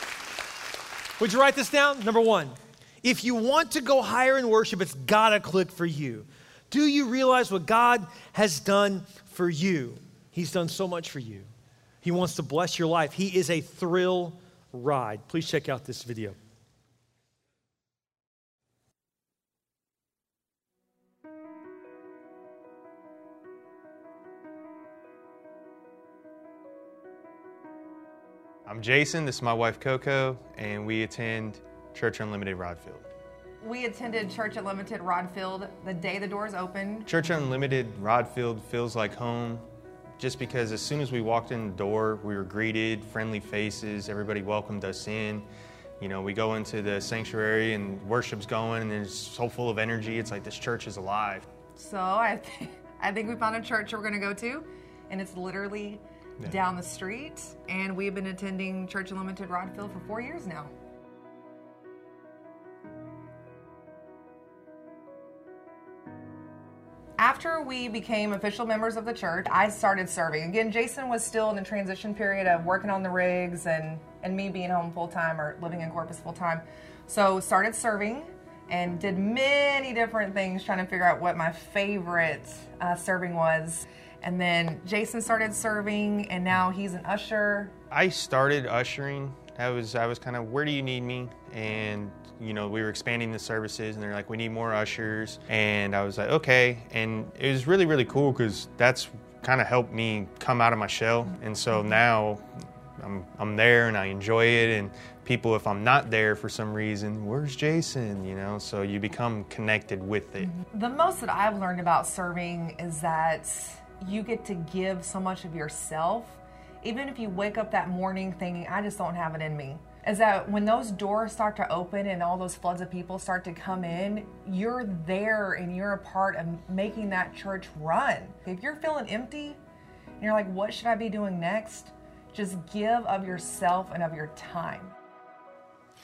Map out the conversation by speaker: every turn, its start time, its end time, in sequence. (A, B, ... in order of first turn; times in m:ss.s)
0:01.2-0:11.5 A
0:12.0-0:16.4 A
0:28.7-0:33.0 B
0:33.6-0:37.1 C
0:37.1-0:39.6 B
0:40.2-0:45.5 B
0:46.0-0:51.5 B
0:51.8-1:00.7 C
1:07.2-1:27.7 C
1:27.9-1:50.6 B
1:50.6-2:09.6 C
2:10.2-2:14.9 C